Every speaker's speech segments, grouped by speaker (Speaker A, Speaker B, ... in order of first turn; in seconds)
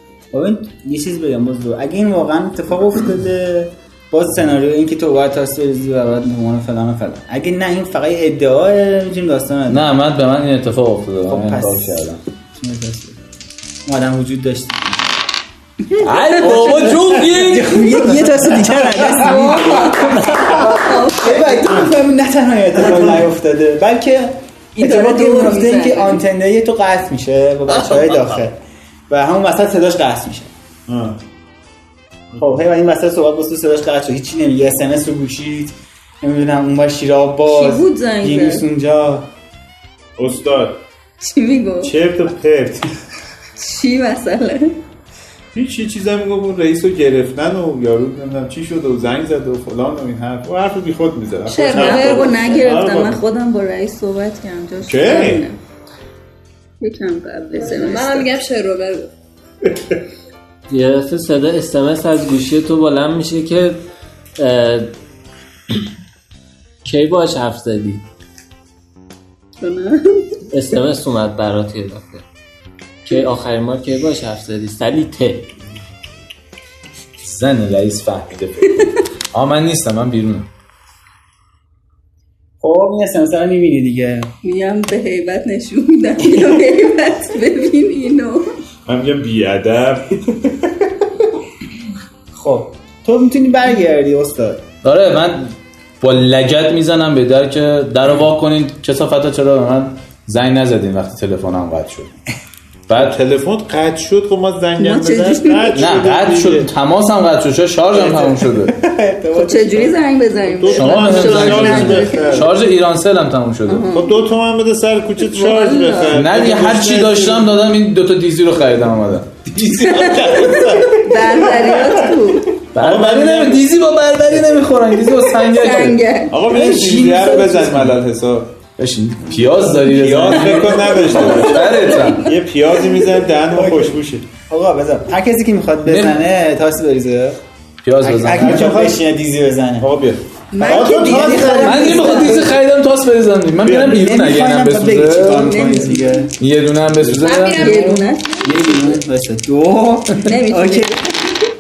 Speaker A: 0.3-9.9, 11.3-13.2, 13.9-15.2, 16.4-28.6, 29.1-30.5, 32.4-39.3, 82.6-84.3, 92.3-94.7, 107.9-110.0, 126.5-127.8, 133.5-137.4, 138.0-139.9, 140.6-142.5, 143.7-146.3, 148.4-151.5
Speaker B: 9.7-12.2, 16.0-18.2, 77.2-80.5, 94.8-102.1, 102.9-103.2, 105.8-108.8, 110.7-113.9, 116.1-119.4, 122.7-126.0, 128.8-132.3, 135.9-136.2, 137.8-138.7, 141.6-145.6, 146.4-148.0
Speaker C: 16.0-17.3, 19.3-20.8, 22.8-23.2, 30.9-31.2, 40.2-40.8, 41.8-42.9, 45.5-53.2, 54.8-55.4, 88.9-90.5, 102.9-106.7, 110.6-112.6, 113.9-117.5, 119.5-122.1, 122.8-123.8, 124.4-124.6, 126.3-128.6, 129.3-134.3, 138.3-139.0, 139.8-142.5, 143.6-144.0
Speaker D: 19.0-21.8, 24.8-26.2, 37.5-38.7, 41.2-42.0, 43.6-44.8, 51.7-55.6, 56.8-58.3, 69.6-70.4, 84.4-88.5, 104.8-106.0, 109.3-112.5, 113.7-114.2, 115.2-116.2, 119.8-122.5, 125.3-126.8, 130.5-132.3, 140.5-142.5, 145.4-146.2, 147.5-148.2, 150.2-150.9
Speaker E: 51.5-52.6, 57.6-59.1, 147.2-149.0
Speaker F: 60.7-63.8, 64.4-64.9, 66.8-68.0, 70.5-72.2, 73.0-75.5